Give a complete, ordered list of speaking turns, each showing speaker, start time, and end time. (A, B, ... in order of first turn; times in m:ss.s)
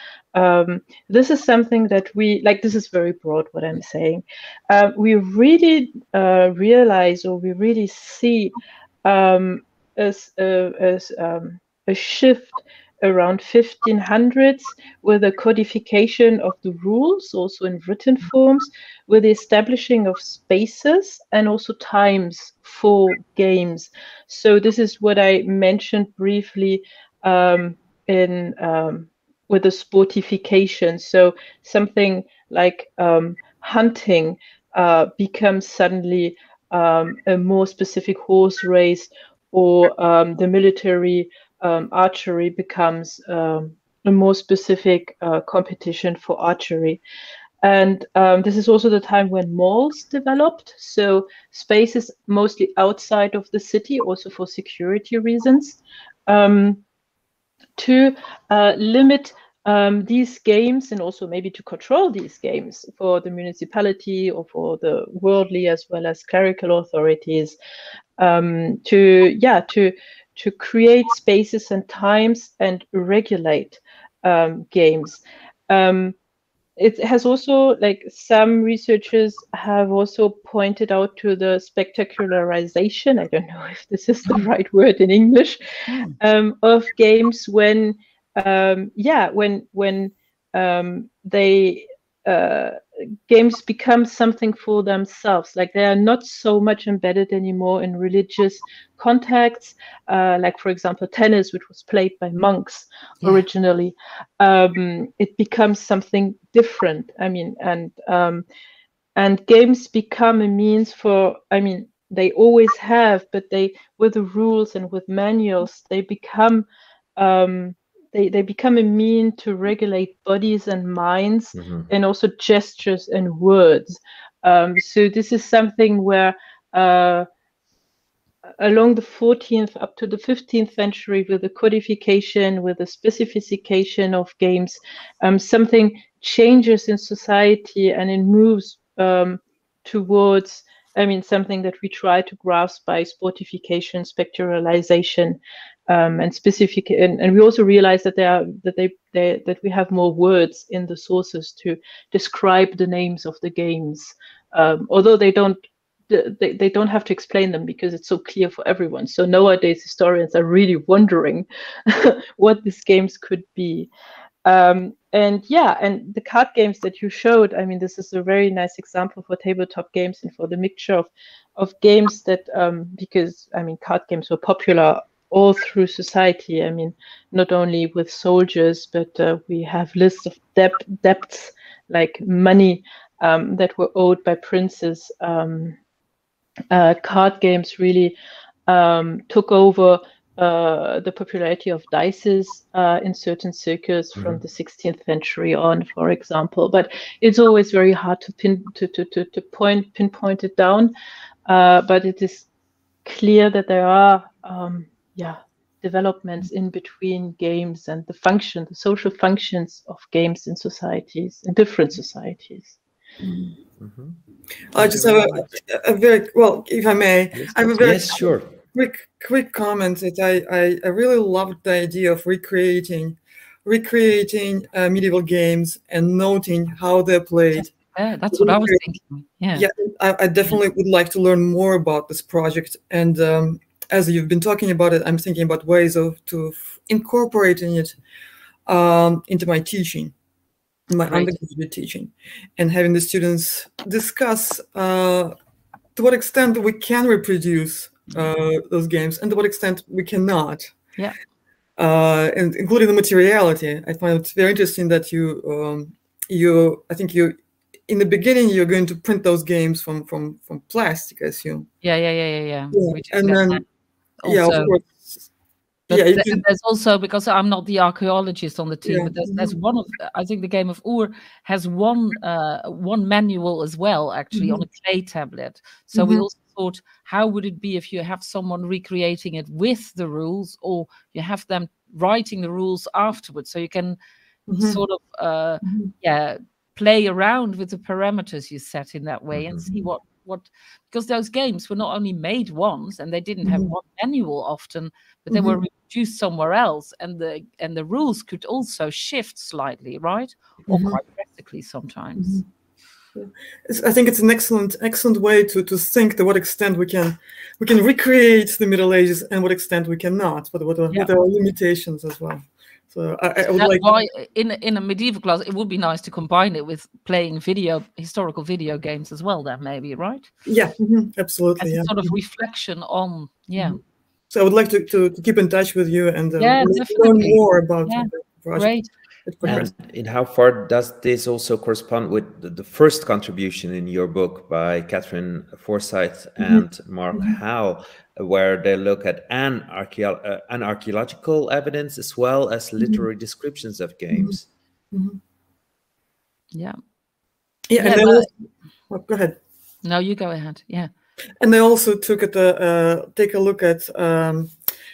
0:00.3-0:47.0 A
0:47.6-0:56.8 A
0:57.8-1:07.6 A
1:08.2-1:16.2 A
1:16.8-1:25.6 A
1:25.9-1:26.1 B
1:26.2-1:48.4 A
1:49.2-2:07.3 A
2:01.5-2:01.9 C
2:08.6-2:25.4 A
2:25.9-2:35.6 A
2:36.1-2:43.9 A
2:44.4-3:05.8 A
3:06.7-3:08.2 A
3:08.7-3:20.9 A
3:14.2-3:14.4 C
3:21.5-3:22.5 A
3:23.0-3:32.8 A
3:33.2-3:33.5 D
3:33.8-3:34.2 C
3:34.7-3:47.7 D
3:34.8-3:35.4 B
3:37.7-3:38.6 C
3:47.5-3:49.7 B
3:48.3-3:48.8 D
3:49.5-3:58.0 D
3:58.7-4:00.1 D
4:00.9-4:05.3 D
4:01.1-4:01.3 B
4:06.0-4:10.7 D
4:11.8-4:17.3 D
4:17.9-4:21.7 D
4:21.8-4:23.6 B
4:22.7-4:23.6 D
4:24.2-4:24.8 B
4:24.2-4:25.3 D
4:25.9-4:26.4 D
4:25.9-4:44.0 B
4:28.8-4:29.5 D
4:34.3-4:34.6 D
4:35.9-4:36.2 D
4:44.5-4:44.8 D
4:44.6-5:02.4 B
4:45.6-4:45.9 D
4:49.3-4:49.6 C
4:53.4-4:53.7 D
4:55.3-4:55.6 D
5:00.7-5:01.0 D
5:02.2-5:02.4 D
5:03.1-5:13.8 D
5:13.5-5:20.3 B
5:20.4-5:22.1 D
5:21.6-5:23.8 B
5:24.3-5:28.7 D
5:26.4-5:28.9 B
5:29.2-5:29.7 D
5:29.4-5:44.5 C
5:36.4-5:37.4 D
5:44.1-5:44.4 D
5:44.9-5:45.2 D
5:47.7-5:48.3 D
5:47.8-5:48.3 B
5:48.9-5:49.4 D
5:49.8-5:50.9 B
5:51.4-5:54.5 D